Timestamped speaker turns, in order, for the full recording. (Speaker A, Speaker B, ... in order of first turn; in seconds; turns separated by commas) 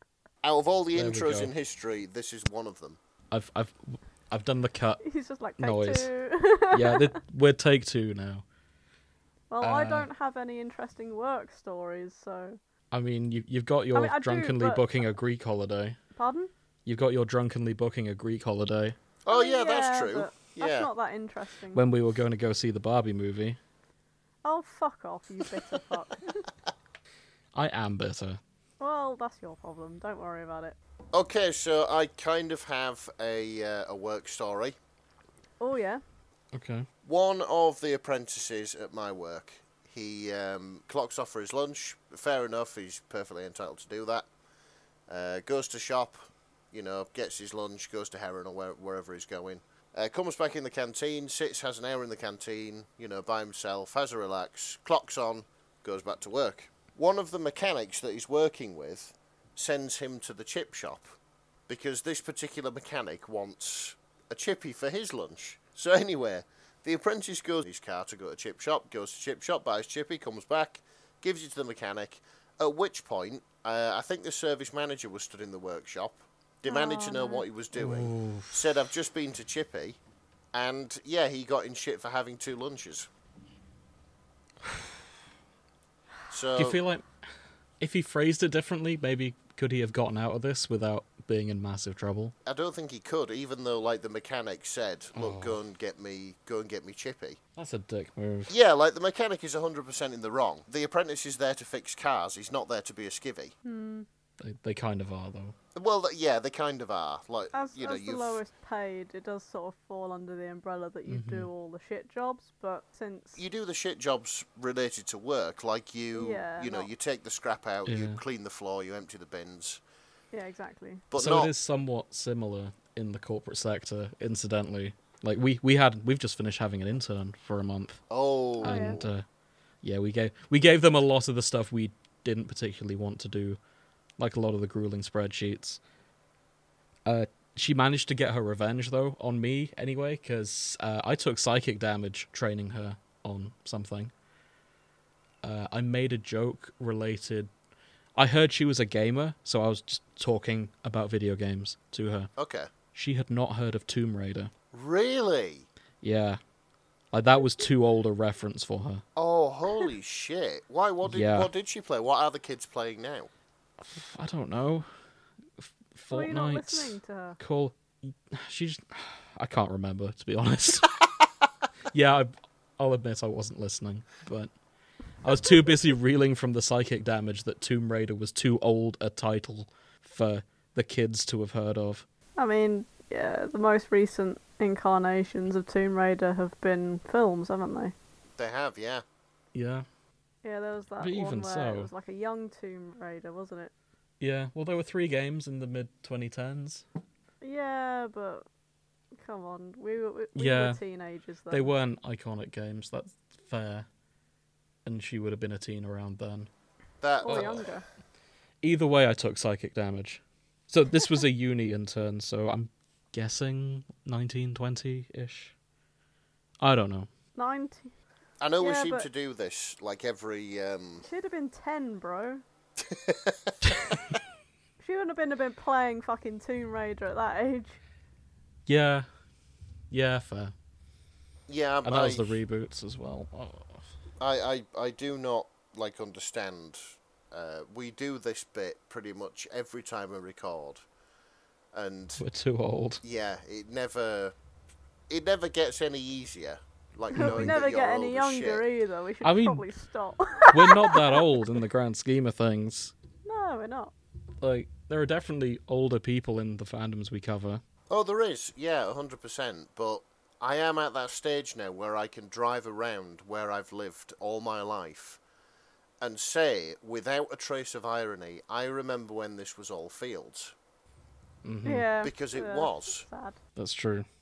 Speaker A: 0.4-3.0, Speaker B: 0.9-1.5, Speaker B: 3.3-5.0, Speaker C: 5.0-7.2, Speaker B: 5.6-6.1, Speaker B: 6.6-8.4, Speaker C: 9.5-12.6, Speaker B: 9.6-10.1, Speaker B: 12.9-16.0, Speaker C: 13.9-14.8, Speaker C: 16.1-16.5, Speaker B: 16.9-19.0, Speaker A: 19.3-20.9, Speaker C: 19.3-21.8, Speaker B: 21.7-23.6, Speaker C: 24.4-26.4, Speaker B: 27.6-28.4, Speaker C: 28.8-30.8, Speaker A: 31.1-34.8, Speaker C: 35.6-36.0, Speaker B: 36.5-36.9, Speaker A: 37.0-44.3, Speaker A: 45.1-61.1, Speaker A: 61.7-80.0, Speaker C: 76.7-77.4, Speaker B: 77.7-78.7, Speaker A: 80.5-83.1, Speaker A: 86.3-86.8, Speaker B: 86.6-87.0, Speaker B: 87.8-92.3, Speaker A: 92.5-97.4, Speaker B: 95.2-95.6, Speaker B: 97.6-98.5, Speaker A: 98.5-103.5, Speaker C: 103.7-104.1, Speaker B: 104.4-105.5, Speaker A: 105.8-108.4, Speaker C: 107.5-113.4, Speaker B: 111.1-111.5, Speaker A: 113.4-119.8, Speaker C: 116.1-116.9, Speaker B: 117.9-118.2, Speaker C: 120.3-121.0, Speaker A: 121.1-121.5, Speaker B: 121.1-128.0, Speaker A: 128.1-129.1, Speaker B: 128.6-129.2, Speaker C: 128.6-129.1, Speaker B: 129.8-133.6, Speaker B: 134.2-135.8, Speaker B: 137.1-144.1, Speaker B: 145.4-147.5, Speaker B: 148.2-152.3, Speaker A: 152.4-152.7, Speaker B: 152.9-154.5, Speaker A: 154.7-155.7, Speaker B: 156.0-156.4, Speaker B: 157.1-159.0, Speaker A: 159.2-163.3, Speaker B: 161.1-161.5, Speaker B: 163.8-164.9, Speaker B: 165.6-171.0, Speaker C: 166.1-167.4, Speaker B: 171.9-174.5, Speaker B: 175.2-182.1, Speaker C: 182.4-187.9, Speaker A: 188.4-189.1, Speaker B: 189.5-189.9, Speaker C: 190.4-193.7, Speaker B: 191.0-191.9, Speaker B: 194.2-196.8, Speaker C: 197.4-198.4, Speaker C: 199.2-201.8, Speaker B: 200.3-200.8, Speaker B: 201.5-203.9, Speaker B: 204.8-206.5, Speaker A: 207.0-207.7, Speaker C: 207.2-207.8, Speaker B: 207.3-207.6, Speaker B: 208.6-215.5, Speaker B: 216.6-217.1, Speaker C: 217.4-217.9, Speaker A: 218.4-221.0, Speaker C: 218.6-219.1, Speaker C: 221.0-222.4, Speaker A: 222.8-224.0, Speaker C: 224.8-227.8, Speaker B: 228.7-229.1, Speaker B: 229.9-230.5, Speaker A: 231.5-232.4, Speaker B: 231.8-233.8, Speaker A: 234.2-240.8, Speaker A: 241.7-242.2, Speaker B: 242.2-243.0, Speaker A: 243.0-244.3, Speaker A: 245.1-248.6, Speaker B: 247.1-247.6, Speaker C: 247.1-251.4, Speaker B: 249.2-249.7, Speaker B: 250.5-252.9, Speaker C: 253.2-253.9, Speaker B: 254.4-257.6, Speaker A: 257.9-265.2, Speaker A: 266.0-270.6, Speaker B: 271.4-271.9, Speaker C: 271.6-273.4, Speaker A: 272.0-273.1, Speaker B: 273.6-274.1